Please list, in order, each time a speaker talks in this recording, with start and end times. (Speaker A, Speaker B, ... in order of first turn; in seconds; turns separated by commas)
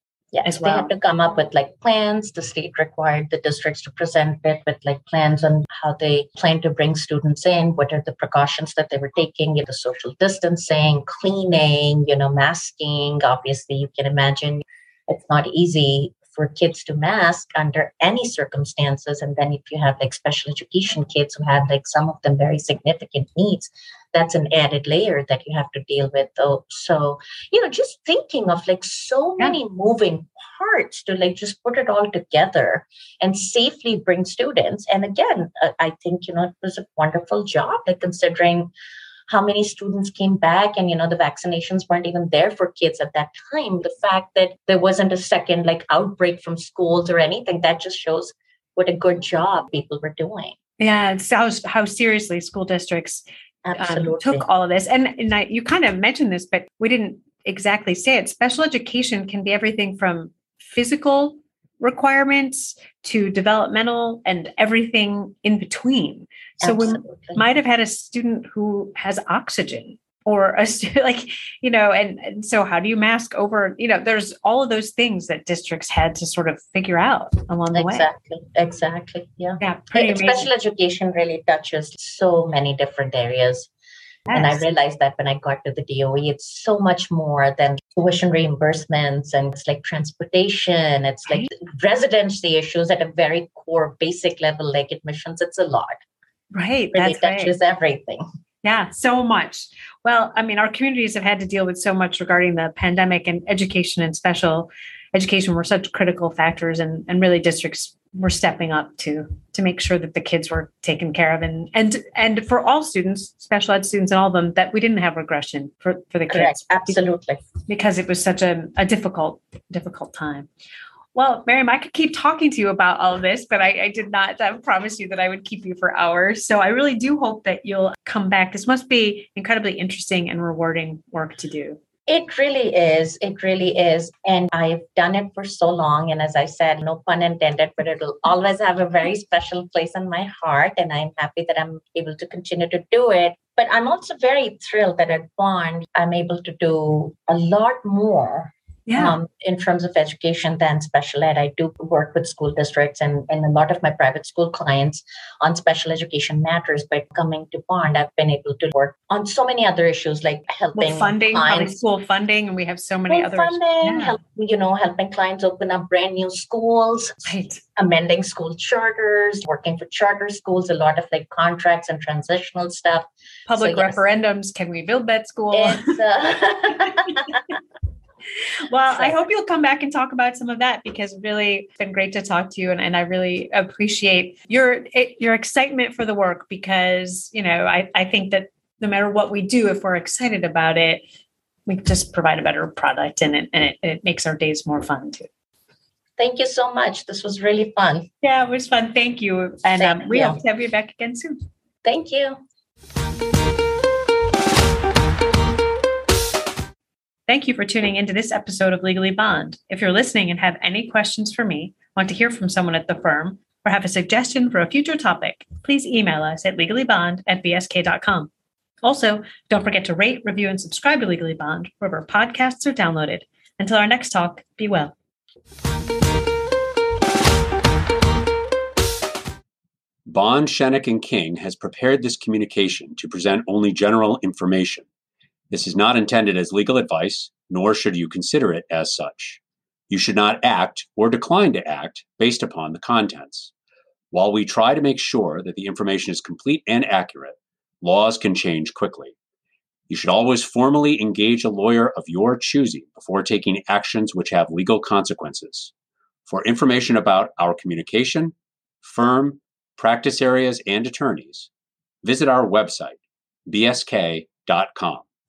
Speaker A: 0.3-38.7, Speaker B: 0.4-0.9, Speaker A: 39.3-50.5, Speaker B: 50.8-53.2, Speaker A: 53.6-54.5, Speaker B: 53.8-78.1, Speaker A: 66.6-67.4, Speaker A: 77.7-83.7, Speaker B: 79.6-80.5, Speaker B: 84.3-84.6, Speaker A: 84.3-96.0, Speaker B: 96.5-97.5, Speaker A: 96.9-98.2, Speaker B: 98.6-117.0, Speaker A: 116.3-117.4, Speaker B: 117.7-120.5, Speaker B: 121.2-131.8, Speaker A: 132.1-161.7, Speaker B: 148.9-149.2, Speaker B: 160.8-164.2, Speaker A: 163.1-174.0, Speaker B: 167.3-167.6, Speaker B: 173.5-176.0, Speaker A: 175.5-177.4, Speaker B: 176.9-177.3, Speaker B: 178.7-191.0, Speaker B: 191.7-195.3, Speaker A: 196.2-198.1, Speaker B: 198.2-201.4, Speaker A: 199.8-200.4, Speaker A: 201.8-202.4, Speaker B: 207.3-218.3, Speaker B: 218.8-224.9, Speaker C: 230.1-234.9, Speaker C: 235.5-243.5, Speaker C: 244.1-249.1, Speaker C: 249.9-255.7, Speaker C: 256.3-261.5, Speaker C: 262.0-265.1